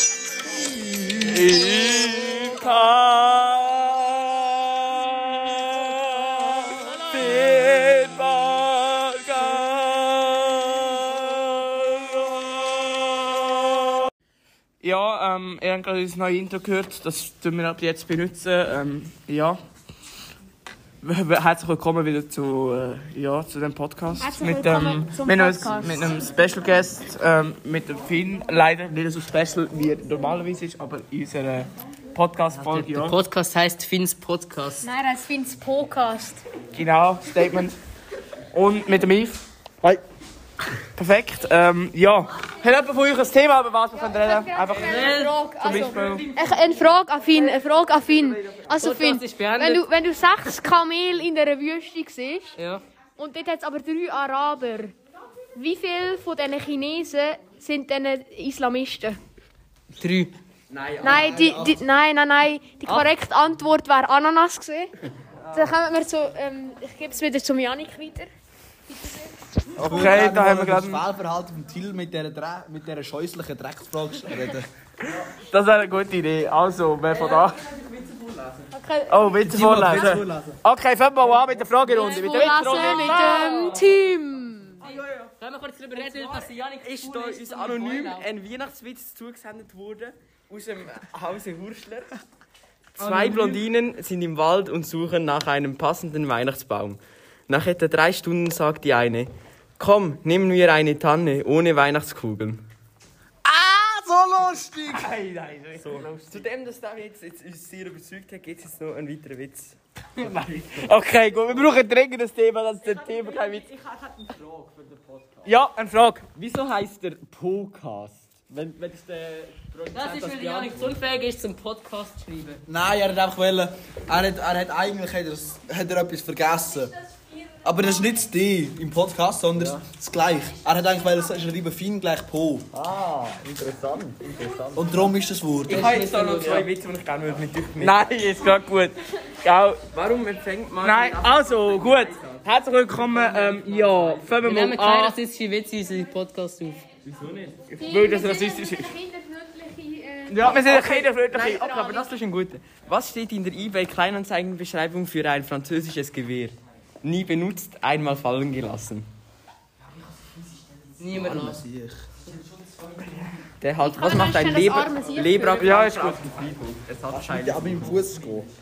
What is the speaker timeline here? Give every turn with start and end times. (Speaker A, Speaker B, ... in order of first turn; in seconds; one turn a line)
Speaker A: 0.8-1.5
Speaker B: 1.2-5.1
Speaker B: 6.2-13.4
Speaker B: 14.8-19.6
Speaker B: 21.0-33.1
Speaker C: 24.2-26.3
Speaker D: 32.5-34.9
Speaker C: 34.8-36.4
Speaker B: 36.7-37.8
Speaker B: 38.5-39.5
Speaker B: 41.0-46.3
Speaker C: 44.0-52.6
Speaker D: 44.8-45.3
Speaker D: 48.8-49.9
Speaker D: 52.6-52.8
Speaker C: 53.2-54.9
Speaker C: 55.5-59.2
Speaker D: 60.0-60.4
Speaker E: 60.7-61.7
Speaker C: 61.0-64.9
Speaker A: 61.1-61.6
Speaker D: 62.8-63.1
Speaker C: 65.5-68.3
Speaker C: 68.9-69.3
Speaker B: 69.8-71.0
Speaker A: 69.8-74.7
Speaker B: 75.5-77.6
Speaker E: 78.0-78.4
Speaker C: 78.7-79.2
Speaker B: 79.1-83.8
Speaker A: 79.4-80.6
Speaker C: 81.9-84.8
Speaker D: 85.3-88.3
Speaker E: 86.8-92.1
Speaker E: 92.9-102.6
Speaker B: 93.0-93.6
Speaker A: 103.5-105.1
Speaker B: 104.9-106.4
Speaker E: 105.8-109.8
Speaker B: 110.2-113.6
Speaker E: 113.0-115.5
Speaker B: 115.4-116.3
Speaker E: 116.3-120.9
Speaker D: 119.9-122.6
Speaker A: 122.7-126.9
Speaker A: 127.6-132.7
Speaker E: 129.6-129.8
Speaker E: 132.7-135.1
Speaker A: 134.7-135.8
Speaker E: 135.6-138.1
Speaker D: 135.7-136.6
Speaker B: 136.3-136.6
Speaker B: 137.8-139.8
Speaker E: 139.9-142.4
Speaker B: 140.8-145.1
Speaker E: 143.5-144.2
Speaker D: 144.4-146.8
Speaker E: 147.1-147.7
Speaker B: 147.7-148.9
Speaker C: 147.8-152.1
Speaker B: 150.3-152.0
Speaker E: 151.3-159.1
Speaker D: 161.0-161.6
Speaker A: 161.1-162.0
Speaker B: 163.0-163.4
Speaker E: 163.6-167.9
Speaker C: 163.8-165.7
Speaker B: 165.6-166.3
Speaker A: 167.1-168.5